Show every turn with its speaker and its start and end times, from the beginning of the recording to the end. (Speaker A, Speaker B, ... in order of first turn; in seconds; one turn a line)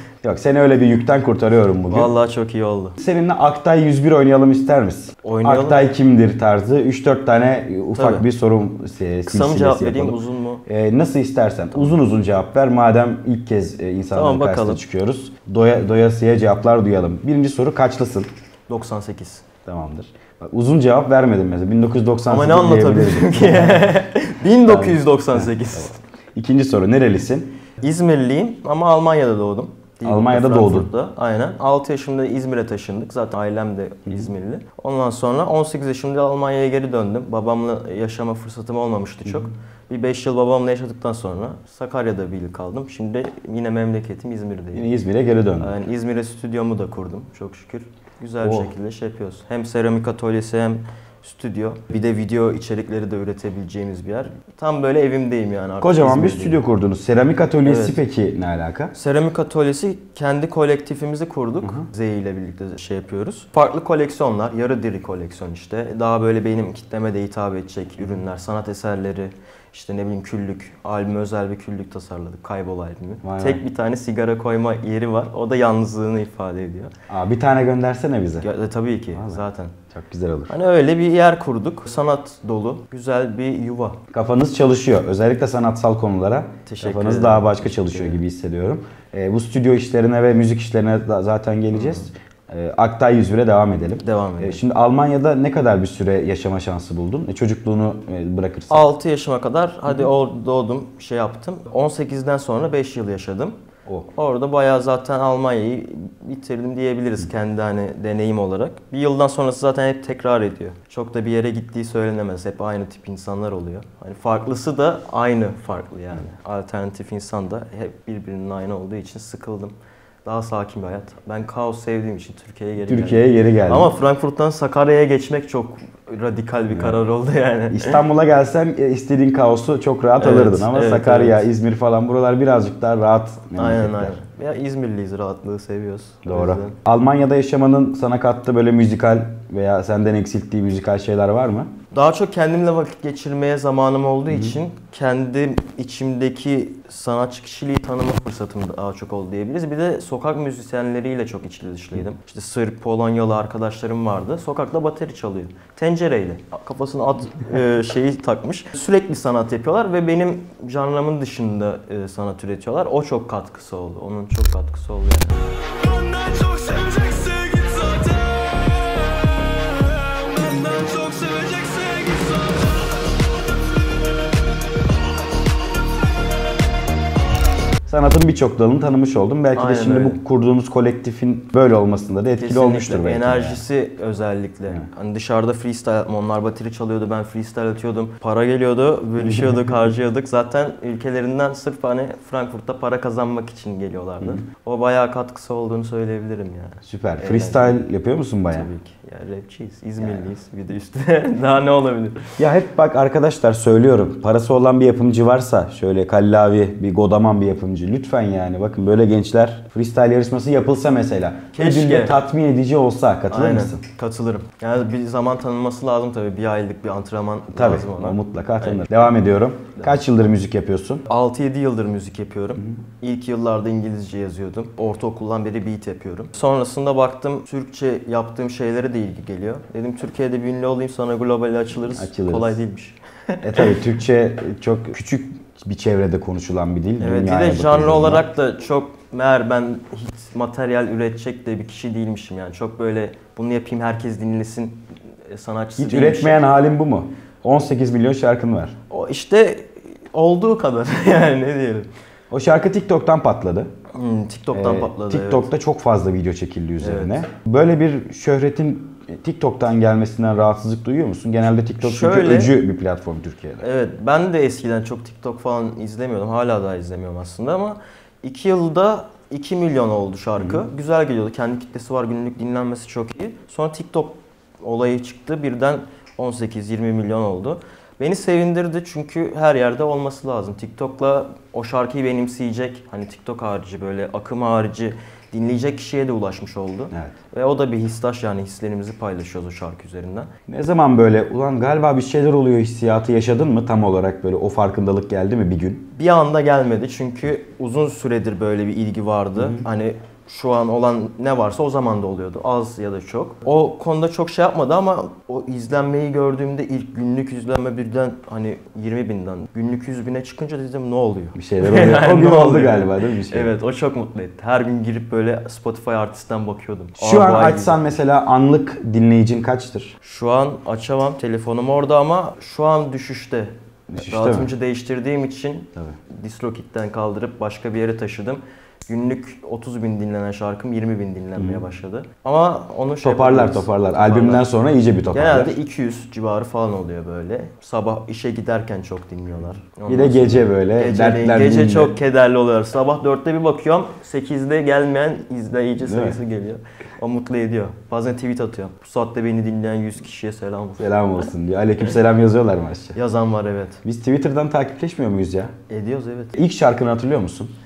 Speaker A: 0.2-2.1
Speaker B: 1.9-3.0
Speaker A: 3.0-18.3
Speaker B: 5.2-5.9
Speaker B: 7.9-8.3
Speaker B: 9.2-10.6
Speaker B: 14.1-14.8
Speaker B: 18.7-19.4
Speaker A: 19.7-23.9
Speaker B: 22.3-26.0
Speaker A: 24.6-27.6
Speaker B: 27.8-44.9
Speaker A: 30.1-30.9
Speaker A: 44.7-45.8
Speaker B: 45.6-56.6
Speaker A: 48.4-48.7
Speaker A: 55.8-58.9
Speaker B: 57.6-58.0
Speaker B: 58.9-76.9
Speaker A: 73.2-73.6
Speaker A: 77.1-78.5
Speaker B: 78.4-79.8
Speaker A: 79.1-80.5
Speaker B: 80.5-84.0
Speaker A: 84.1-98.9
Speaker B: 86.7-88.2
Speaker B: 91.7-92.1
Speaker B: 94.0-94.6
Speaker B: 98.7-103.5
Speaker B: 104.1-119.7
Speaker B: 120.2-128.0
Speaker A: 122.8-123.9
Speaker A: 126.7-127.0
Speaker A: 127.7-134.2
Speaker B: 130.2-131.5
Speaker B: 133.5-136.8
Speaker A: 136.2-141.7
Speaker B: 141.9-174.0
Speaker A: 144.3-144.6
Speaker A: 177.9-183.6
Speaker B: 179.6-180.2
Speaker B: 182.4-197.8
Speaker A: 189.2-189.5
Speaker A: 196.8-198.7
Speaker B: 198.5-202.3
Speaker A: 200.0-200.3
Speaker A: 202.4-213.8
Speaker B: 211.5-212.2
Speaker B: 213.3-219.0
Speaker A: 217.5-221.0
Speaker B: 221.1-233.8
Speaker A: 231.9-232.6
Speaker A: 233.4-238.3
Speaker B: 237.0-246.5
Speaker A: 245.8-248.7
Speaker B: 248.9-251.9
Speaker A: 252.3-253.7
Speaker B: 253.9-255.5
Speaker A: 254.5-263.6
Speaker B: 256.8-257.2
Speaker B: 261.8-262.5
Speaker B: 263.6-290.3
Speaker A: 270.4-270.6
Speaker A: 290.5-295.9
Speaker B: 295.9-317.9
Speaker A: 299.4-299.6
Speaker A: 311.4-313.5
Speaker A: 317.0-319.9
Speaker B: 320.0-334.4
Speaker A: 323.9-324.5
Speaker A: 331.4-331.6
Speaker A: 333.0-335.6
Speaker B: 335.1-351.2
Speaker A: 339.9-342.0
Speaker A: 345.8-346.2
Speaker A: 350.8-353.0
Speaker B: 352.9-353.8
Speaker A: 353.8-355.5
Speaker B: 355.7-356.4
Speaker A: 356.4-357.5